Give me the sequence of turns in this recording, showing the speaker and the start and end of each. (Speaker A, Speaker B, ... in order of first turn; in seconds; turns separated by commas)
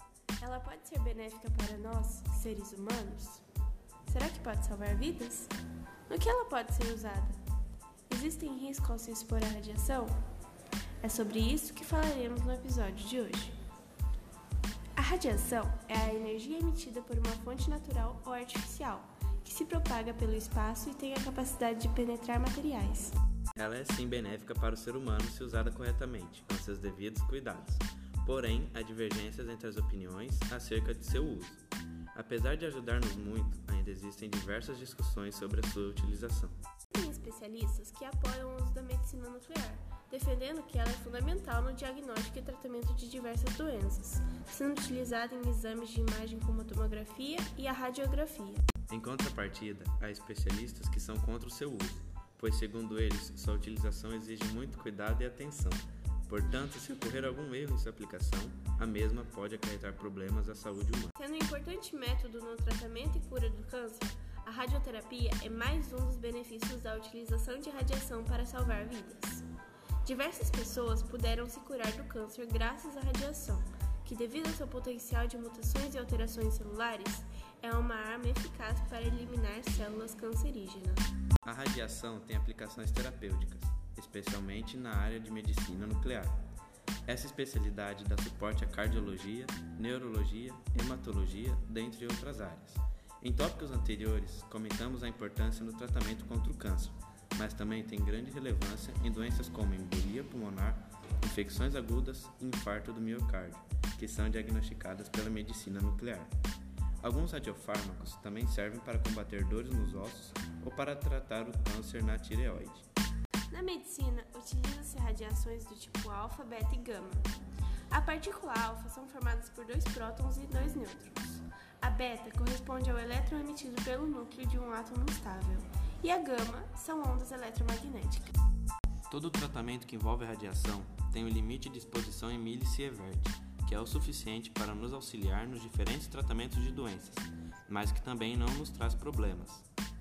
Speaker A: 0.4-3.4, Speaker A: 4.0-5.5, Speaker A: 6.1-7.4, Speaker A: 8.1-10.2, Speaker A: 11.0-13.5, Speaker A: 15.0-23.2, Speaker B: 23.6-36.5, Speaker A: 36.9-48.6, Speaker B: 48.9-61.1, Speaker A: 61.2-69.4, Speaker A: 70.0-81.1, Speaker B: 81.4-86.4, Speaker B: 87.0-106.3, Speaker B: 107.0-112.9, Speaker A: 113.5-117.3, Speaker A: 117.9-128.3, Speaker B: 129.1-139.7